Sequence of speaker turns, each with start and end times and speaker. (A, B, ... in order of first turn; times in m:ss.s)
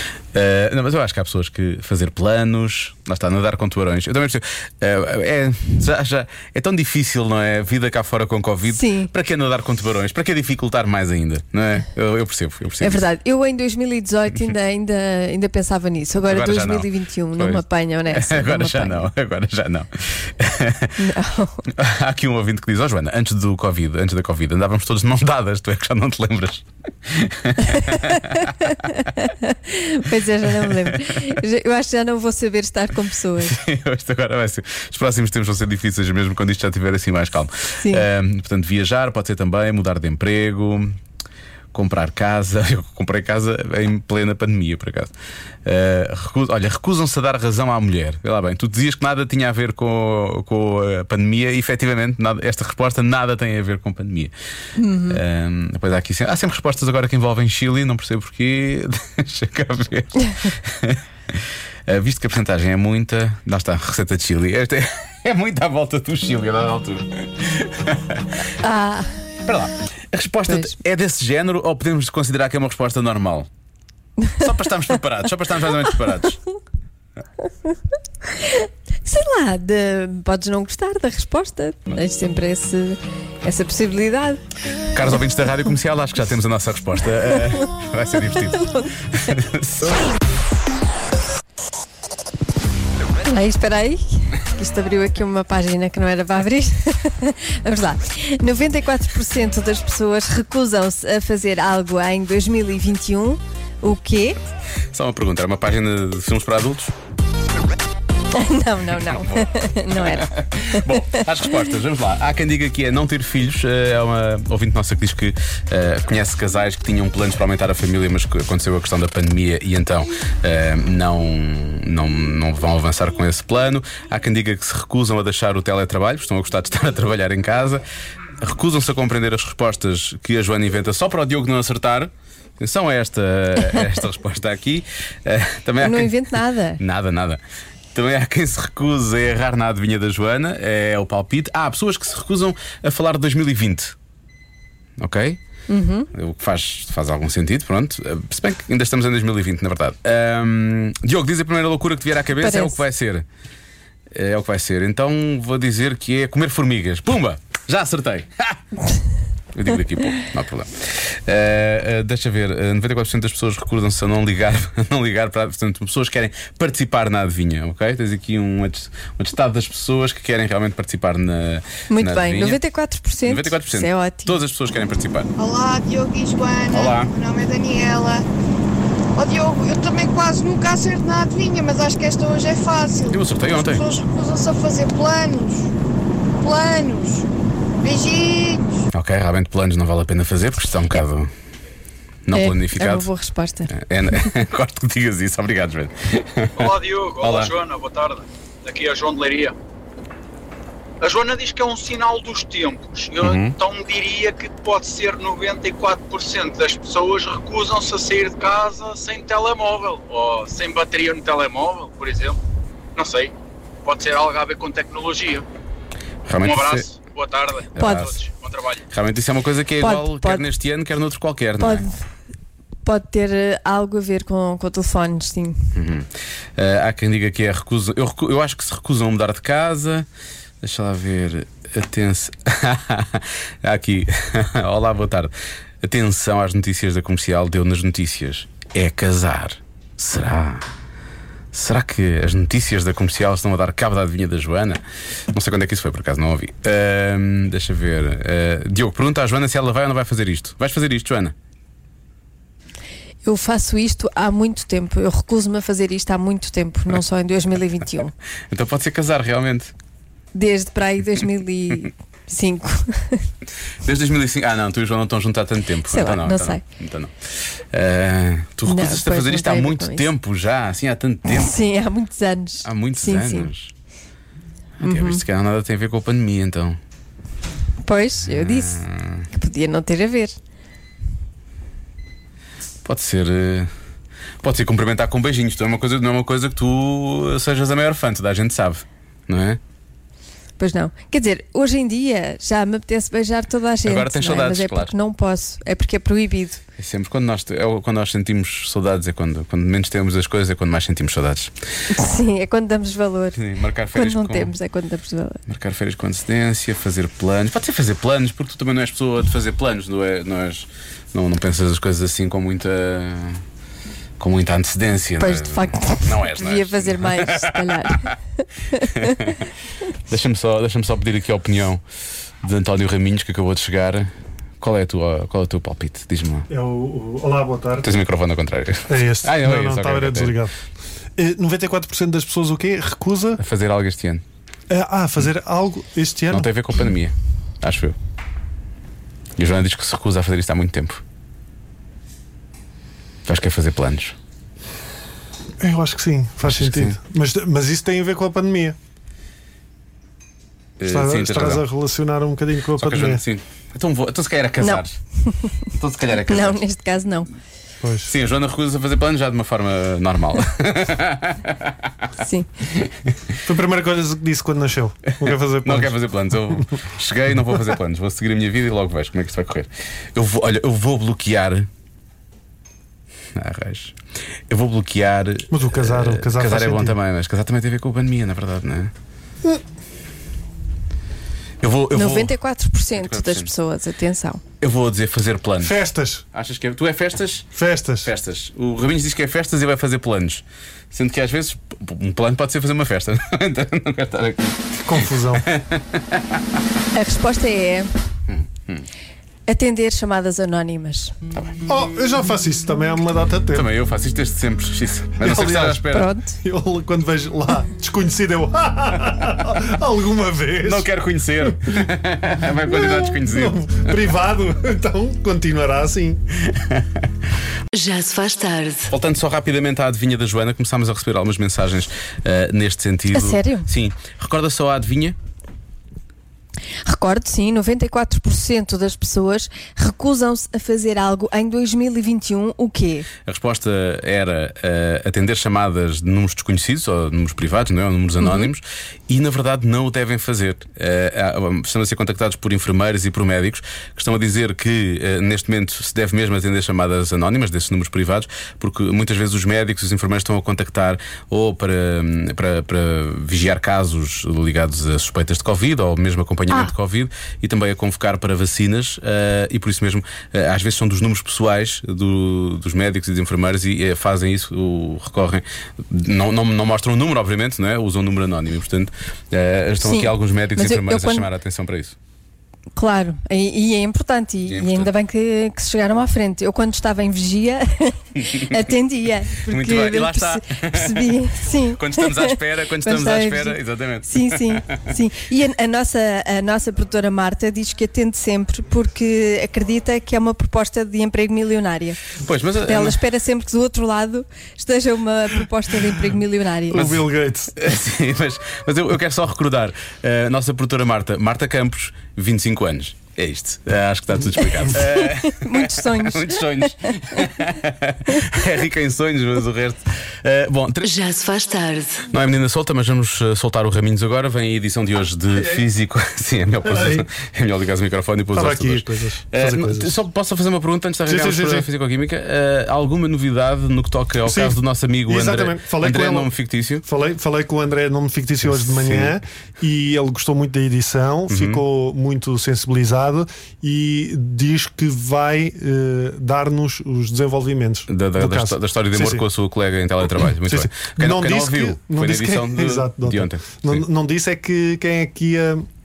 0:00.3-0:13.0 A
0:08.7-0:09.1 B
0:12.8-0:19.1 B
0:16.3-0:21.0 A
0:21.0-0:21.6 B
0:21.7-0:28.7 A
0:27.7-0:33.6 B
0:30.6-0:31.2 A
0:33.4-0:41.0 A
0:37.8-0:38.0 B
0:41.7-0:45.1 A
0:45.6-0:54.3 A
0:54.8-0:55.2 B
0:55.1-1:08.2 A
1:08.6-1:09.1 B
1:09.4-1:13.5 A
1:10.5-1:10.7 B
1:14.4-1:16.4 A
1:18.3-1:24.4 B
1:24.9-1:30.0 A
1:33.2-1:44.4 B
1:44.9-1:46.9 A
1:48.3-1:51.2 B
1:49.1-1:49.4 A
1:49.9-2:07.8 A
2:08.4-2:16.2 A
2:15.8-2:16.8 B
2:16.8-2:17.4 A
2:17.9-2:23.9 A
2:25.0-2:25.4 A
2:25.7-2:26.1 B
2:26.1-2:33.2 A
2:32.4-2:32.8 B
2:34.1-2:38.6 A
2:39.5-2:52.6 A
2:51.9-2:54.4 B
2:53.2-2:55.3 A
2:55.4-2:58.2 C
2:56.7-2:57.1 A
2:59.2-3:05.7 C
3:03.1-3:03.9 A
3:06.4-3:07.3 C
3:07.8-3:08.8 C
3:08.9-3:11.3 A
3:12.2-3:13.1 A
3:12.3-3:13.7 B
3:13.7-3:17.5 A
3:16.5-3:19.6 D
3:21.0-3:32.4 D
3:23.2-3:23.6 A
3:33.0-3:35.4 D
3:36.2-3:36.9 A
3:36.4-3:38.8 D
3:37.7-3:38.1 A
3:37.8-3:38.1 B
3:38.9-3:41.8 A
3:39.8-3:40.4 B
3:41.6-3:42.0 B
3:42.8-3:45.7 B
3:45.7-3:50.1 A
3:50.6-4:00.6 A
4:01.5-4:04.8 A
4:05.3-4:11.3 A
4:13.2-4:18.1 B
4:18.5-4:19.7 A
4:20.3-4:23.2 B
4:23.8-4:27.1 A
4:25.9-4:26.6 B
4:27.7-4:31.5 A
4:28.6-4:30.1 B
4:31.3-4:33.5 B
4:32.6-4:33.7 A
4:34.8-4:36.8 A
4:34.8-4:35.2 B
4:37.8-4:40.4 B
4:38.3-4:39.3 A
4:42.8-4:43.7 A
4:44.4-4:49.6 A
4:50.6-4:56.6 B
4:53.8-4:54.9 A
4:56.8-5:01.5 A
5:01.9-5:05.4 B
5:03.4-5:04.5 A
5:05.5-5:13.4 A
5:14.2-5:18.1 A
5:15.2-5:19.3 B
5:18.8-5:19.4 A
5:20.1-5:21.8 A
5:22.4-5:24.1 A
5:24.6-5:26.5 A
5:26.5-5:28.0 E
5:27.8-5:30.4 A
5:28.9-5:30.5 E
5:31.2-5:33.4 E
5:33.4-5:34.2 A
5:34.7-5:36.5 E
5:36.3-5:38.0 A
5:39.4-5:41.0 A
5:43.2-5:44.2 A
5:45.6-5:48.8 E
5:46.4-5:46.9 A
5:50.8-5:51.6 A
5:50.8-5:53.2 E
5:52.8-5:55.0 A
5:54.6-5:55.6 B
5:55.7-5:56.6 A
5:56.2-5:57.3 B
5:57.8-5:58.1 E
5:58.1-6:01.8 A
6:02.2-6:02.5 B
6:03.4-6:05.9 E
6:05.2-6:11.7 A
6:13.4-6:14.0 A
6:14.5-6:18.9 A
6:15.5-6:16.9 E
6:21.6-6:22.4 A
6:21.9-6:24.4 B
6:22.9-6:23.5 A
6:24.6-6:25.8 A
6:25.6-6:26.2 E
6:26.3-6:36.4 A
6:27.5-6:28.1 E
6:34.8-6:35.5 E
6:36.9-6:37.9 B
6:38.3-6:38.9 A
6:39.5-6:41.1 B
6:41.7-6:43.7 E
6:43.5-6:46.1 A
6:45.2-6:50.9 E
6:45.9-6:46.4 B
6:50.6-6:53.9 A
6:52.7-6:56.2 E
6:57.7-6:58.9 F
6:58.9-7:05.2 A
7:03.1-7:03.7 B
7:06.8-7:13.1 B
7:13.2-7:51.9 A
7:18.2-7:18.5 B
7:49.8-7:51.3 B
7:52.8-8:12.0 B
7:54.5-7:54.9 A
7:59.5-8:04.8 A
8:12.2-8:13.0 A
8:12.6-8:16.9 B
8:16.7-8:17.6 E
8:17.6-8:30.9 A
8:24.7-8:27.2 B
8:30.8-8:32.1 F
8:32.1-8:46.8 A
8:36.6-8:37.1 E
8:38.3-8:40.0 E
8:41.1-8:41.7 E
8:44.2-8:46.3 E
8:46.8-8:59.2 E
8:48.5-8:49.2 A
8:51.3-8:51.6 A
8:57.9-9:03.8 A
9:00.2-9:05.7 E